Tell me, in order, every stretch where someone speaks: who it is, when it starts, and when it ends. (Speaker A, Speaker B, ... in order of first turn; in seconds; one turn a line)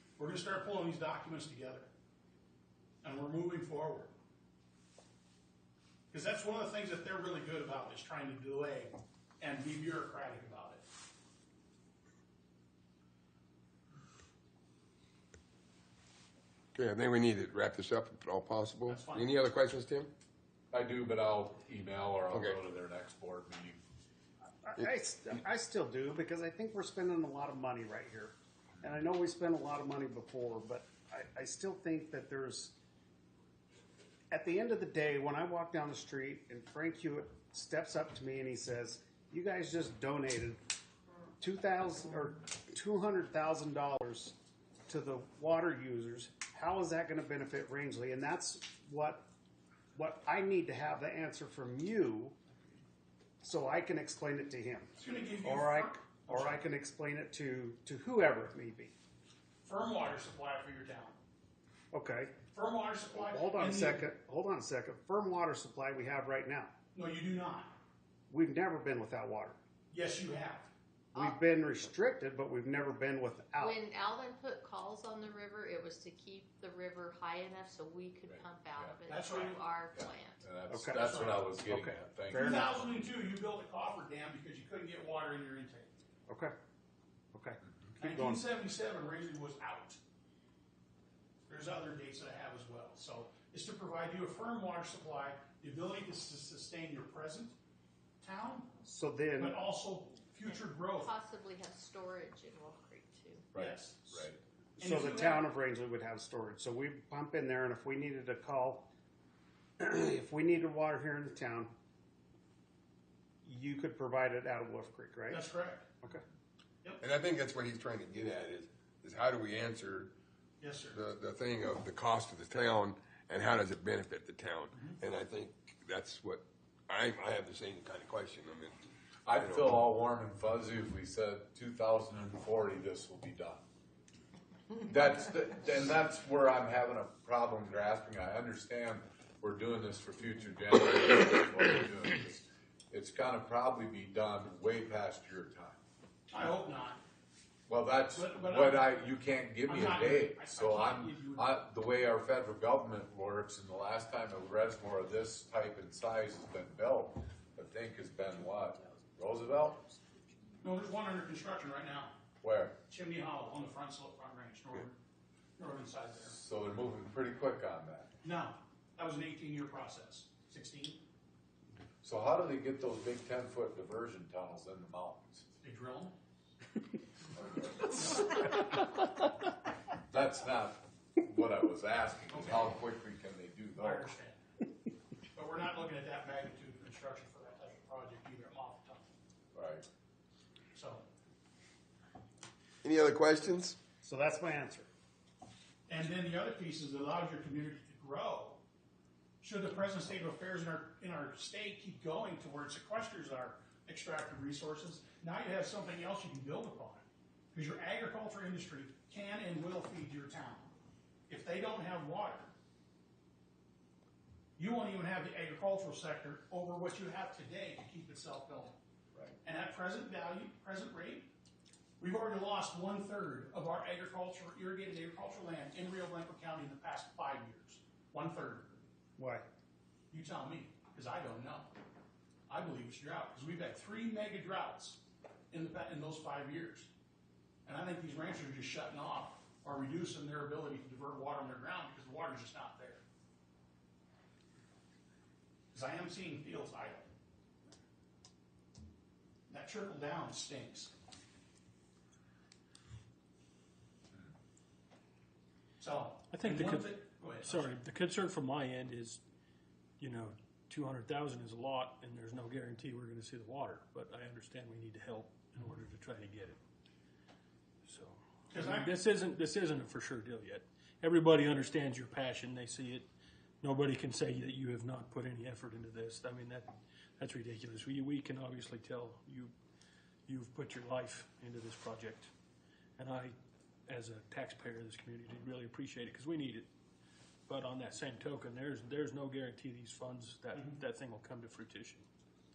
Speaker A: 0.2-1.9
Speaker A: 3.0-4.1
Speaker A: 6.1-10.8
Speaker B: 16.7-20.1
Speaker A: 18.9-19.3
Speaker C: 20.7-23.8
Speaker B: 22.3-22.6
Speaker D: 24.6-32.8
Speaker D: 34.3-40.6
Speaker D: 41.4-44.4
Speaker D: 44.9-49.3
Speaker D: 49.9-52.4
Speaker D: 53.4-58.9
Speaker A: 55.0-56.6
Speaker A: 59.6-61.2
Speaker D: 61.9-62.4
Speaker A: 62.5-64.0
Speaker D: 63.1-66.7
Speaker A: 66.9-67.7
Speaker D: 68.3-69.6
Speaker A: 69.9-70.7
Speaker D: 71.1-73.8
Speaker E: 73.6-80.4
Speaker C: 78.3-79.0
Speaker A: 79.1-79.6
Speaker C: 79.9-82.9
Speaker D: 80.7-82.7
Speaker A: 81.0-81.4
Speaker A: 82.3-85.9
Speaker D: 86.3-86.5
Speaker D: 87.3-88.4
Speaker A: 88.0-90.0
Speaker A: 91.5-97.5
Speaker A: 98.2-98.7
Speaker D: 98.8-99.6
Speaker A: 99.4-101.1
Speaker E: 100.5-103.5
Speaker C: 103.5-104.4
Speaker A: 103.5-104.2
Speaker A: 104.8-105.5
Speaker D: 104.8-108.9
Speaker D: 109.8-111.7
Speaker D: 113.4-115.5
Speaker A: 115.3-115.9
Speaker B: 117.0-120.1
Speaker A: 120.6-121.0
Speaker B: 120.9-128.8
Speaker A: 124.7-125.0
Speaker C: 129.2-133.6
Speaker B: 129.4-129.8
Speaker C: 134.8-145.8
Speaker A: 146.3-147.0
Speaker C: 147.7-159.9
Speaker A: 148.1-149.1
Speaker A: 149.7-151.6
Speaker A: 160.6-162.2
Speaker C: 162.4-162.8
Speaker A: 162.9-165.0
Speaker A: 165.6-166.3
Speaker C: 166.3-168.1
Speaker A: 168.2-171.0
Speaker C: 172.0-175.5
Speaker A: 175.6-176.1
Speaker C: 177.3-177.9
Speaker A: 177.9-178.4
Speaker C: 180.1-184.1
Speaker A: 182.3-182.8
Speaker A: 183.8-184.4
Speaker A: 185.3-189.1
Speaker C: 189.5-189.8
Speaker A: 190.7-191.0
Speaker B: 192.8-193.8
Speaker D: 194.0-194.9
Speaker A: 195.9-198.6
Speaker A: 199.4-210.7
Speaker A: 211.3-212.5
Speaker A: 214.6-218.8
Speaker A: 219.4-221.3
Speaker A: 222.0-228.8
Speaker D: 229.2-229.4
Speaker A: 230.1-231.7
Speaker A: 232.5-236.9
Speaker A: 237.7-243.0
Speaker A: 245.7-247.1
Speaker A: 249.5-250.9
Speaker A: 255.8-257.7
Speaker F: 256.3-259.2
Speaker F: 260.0-266.6
Speaker F: 267.9-273.1
Speaker A: 268.5-268.9
Speaker F: 273.6-279.5
Speaker F: 280.3-282.3
Speaker F: 283.0-283.4
Speaker F: 283.9-286.7
Speaker F: 287.5-292.0